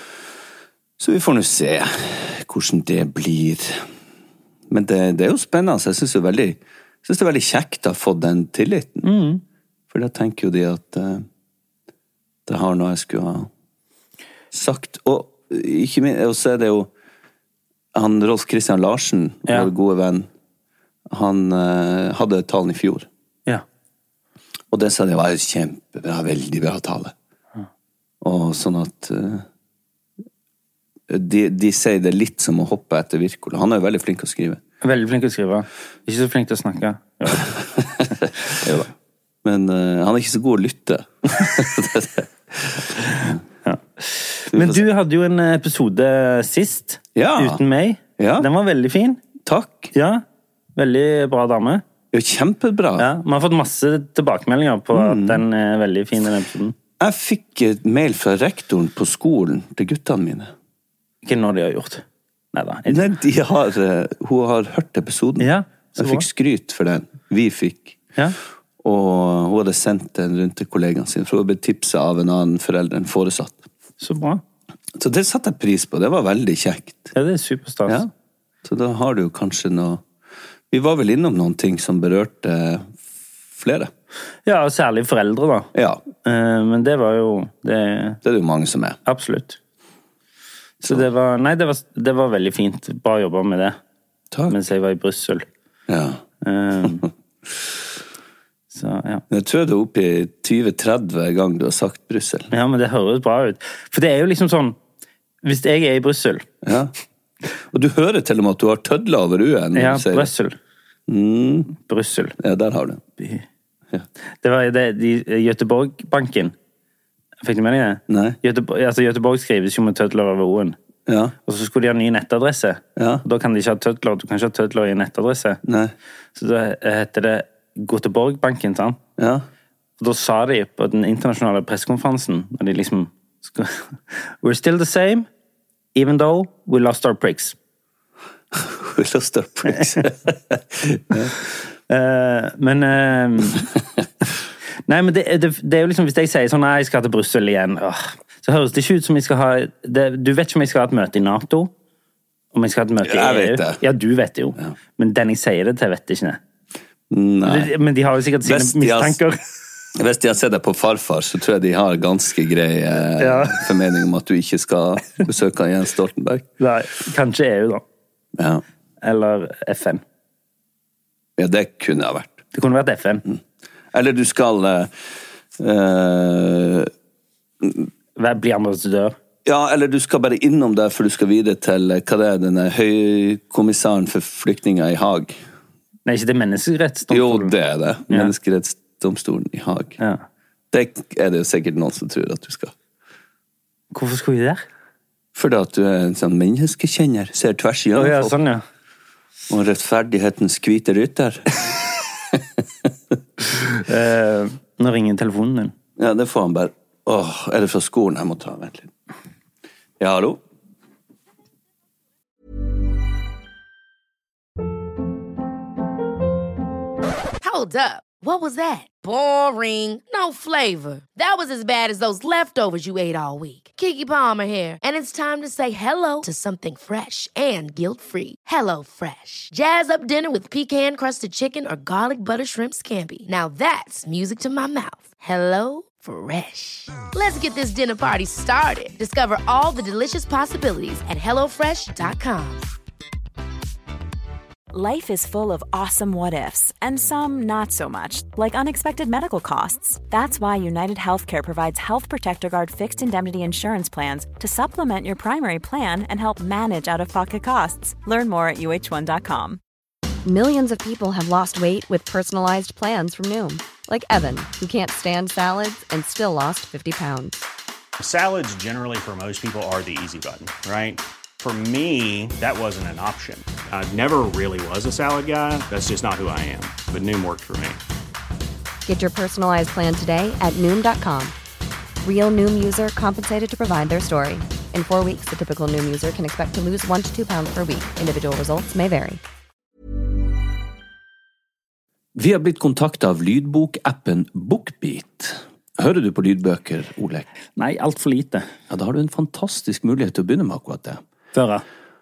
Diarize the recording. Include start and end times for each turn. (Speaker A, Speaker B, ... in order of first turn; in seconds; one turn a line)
Speaker A: 1.0-3.8
Speaker A: 4.7-9.1
Speaker B: 9.0-9.4
Speaker A: 9.9-11.2
Speaker A: 12.5-13.5
Speaker A: 14.5-16.9
Speaker A: 17.9-20.3
Speaker A: 21.1-23.1
Speaker A: 24.7-27.1
Speaker A: 28.2-29.4
Speaker A: 31.1-34.6
Speaker B: 34.8-37.5
Speaker A: 37.8-38.9
Speaker A: 39.4-43.4
Speaker B: 43.6-49.2
Speaker A: 44.5-44.8
Speaker A: 47.1-47.6
Speaker A: 48.2-48.5
Speaker A: 49.4-49.9
Speaker B: 49.9-50.2
Speaker B: 50.8-51.8
Speaker A: 52.1-53.1
Speaker B: 53.0-56.7
Speaker A: 54.9-55.4
Speaker A: 57.0-60.5
Speaker B: 61.2-63.0
Speaker A: 62.9-68.0
Speaker B: 65.4-66.2
Speaker A: 68.8-73.6
Speaker B: 74.0-74.4
Speaker A: 75.0-77.1
Speaker B: 77.1-78.0
Speaker A: 78.6-80.0
Speaker A: 80.7-82.9
Speaker A: 83.5-83.9
Speaker B: 84.5-85.7
Speaker A: 85.7-86.0
Speaker B: 86.2-88.2
Speaker A: 88.2-89.0
Speaker B: 89.0-89.6
Speaker B: 90.8-93.8
Speaker B: 94.5-95.4
Speaker A: 95.9-96.2
Speaker B: 96.4-97.0
Speaker B: 98.7-99.2
Speaker A: 99.3-102.5
Speaker B: 102.5-104.8
Speaker B: 105.4-106.5
Speaker A: 106.6-106.9
Speaker A: 107.7-110.3
Speaker B: 109.7-110.5
Speaker A: 111.1-111.7
Speaker B: 111.8-112.3
Speaker A: 112.4-113.0
Speaker B: 114.4-116.5
Speaker B: 117.4-120.8
Speaker A: 118.1-118.4
Speaker A: 121.1-121.3
Speaker B: 121.5-125.6
Speaker A: 123.0-123.2
Speaker A: 125.6-125.9
Speaker B: 126.3-129.0
Speaker A: 129.2-129.4
Speaker B: 130.0-135.3
Speaker B: 135.9-137.6
Speaker A: 138.5-141.3
Speaker B: 141.9-143.7
Speaker B: 144.9-151.7
Speaker B: 152.5-156.4
Speaker A: 153.0-153.8
Speaker A: 157.1-157.7
Speaker B: 157.4-159.4
Speaker A: 158.4-159.2
Speaker A: 159.9-166.5
Speaker B: 163.2-163.7
Speaker B: 166.6-167.8
Speaker A: 168.4-168.6
Speaker B: 169.0-170.0
Speaker A: 171.4-172.4
Speaker B: 172.5-173.2
Speaker A: 173.9-174.9
Speaker A: 175.6-176.9
Speaker B: 178.2-179.1
Speaker A: 179.4-185.3
Speaker B: 186.1-187.5
Speaker A: 187.1-190.0
Speaker A: 190.7-192.7
Speaker B: 193.9-194.6
Speaker A: 195.3-198.3
Speaker B: 197.9-198.6
Speaker A: 199.5-201.7
Speaker B: 203.9-205.7
Speaker A: 206.0-208.9
Speaker A: 210.0-210.4
Speaker C: 217.4-242.7
Speaker D: 244.7-259.6
Speaker E: 260.2-267.4
Speaker F: 268.0-277.8
Speaker E: 278.9-281.3
Speaker E: 282.0-289.2
Speaker A: 292.1-297.2
Speaker B: 297.6-298.5
Speaker A: 298.7-301.0
Speaker B: 301.3-301.6